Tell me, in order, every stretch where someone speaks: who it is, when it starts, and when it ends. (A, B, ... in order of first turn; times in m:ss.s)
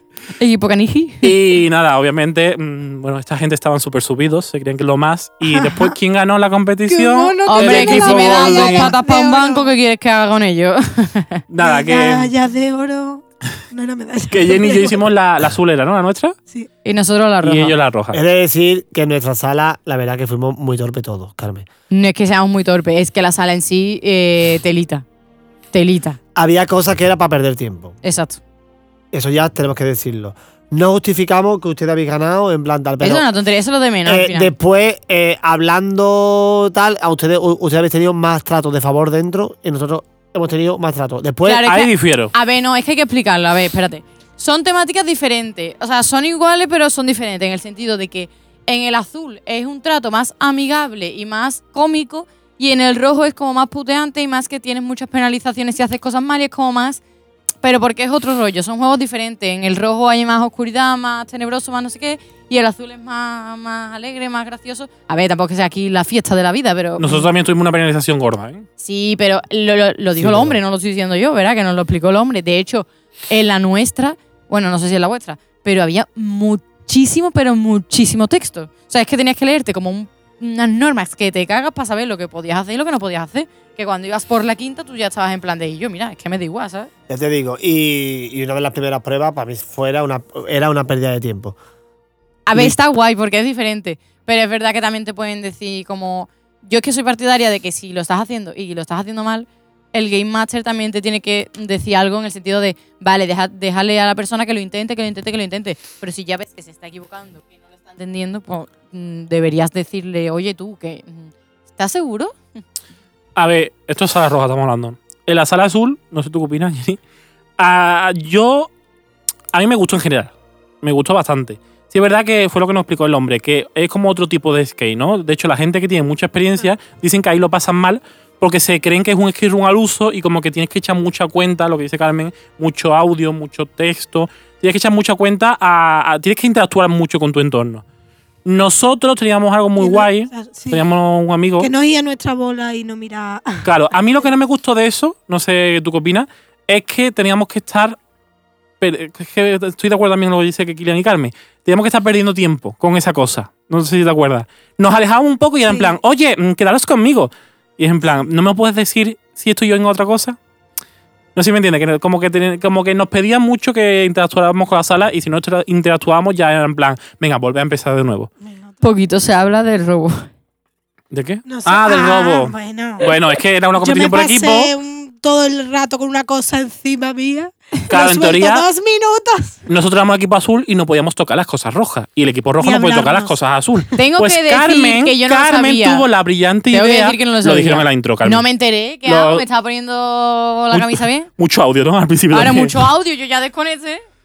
0:00.4-0:01.3 A
0:01.2-0:08.9 B
0:05.5-0:05.9 C
0:06.9-0:09.7 C
0:07.4-0:11.4 A
0:11.5-0:12.3 B
0:11.6-0:15.1 C
0:14.3-0:16.4 B
0:16.8-0:17.7 A
0:17.4-0:18.2 B
0:18.1-0:21.6 D
0:21.9-0:25.0 A
0:25.7-0:26.2 A
0:26.3-0:28.0 D
0:28.0-0:28.4 A
0:29.1-0:33.3 D
0:33.0-0:34.5 A
0:34.0-0:41.6 D
0:41.4-0:57.0 A
0:41.6-0:42.3 B
0:57.6-1:07.3 A
1:07.0-1:08.6 B
1:08.8-1:26.9 A
1:10.2-1:10.6 D
1:27.1-1:31.6 D
1:32.4-1:52.3 A
1:53.4-1:57.0 B
1:57.6-1:58.7 B
1:59.5-2:17.8 B
2:18.4-2:21.7 B
2:19.8-2:20.9 C
2:21.6-2:23.7 C
2:23.6-2:28.0 B
2:28.8-2:40.4 B
2:35.7-2:35.9 C
2:41.4-2:48.3 B
2:48.4-2:48.7 C
2:48.8-2:50.3 A
2:51.1-2:54.7 B
2:51.4-2:59.6 C
2:57.9-2:58.6 B
2:59.7-3:08.4 B
3:02.6-3:03.4 C
3:04.0-3:06.0 A
3:06.7-3:11.3 A
3:09.0-3:09.4 B
3:10.7-3:12.8 B
3:12.3-3:14.0 A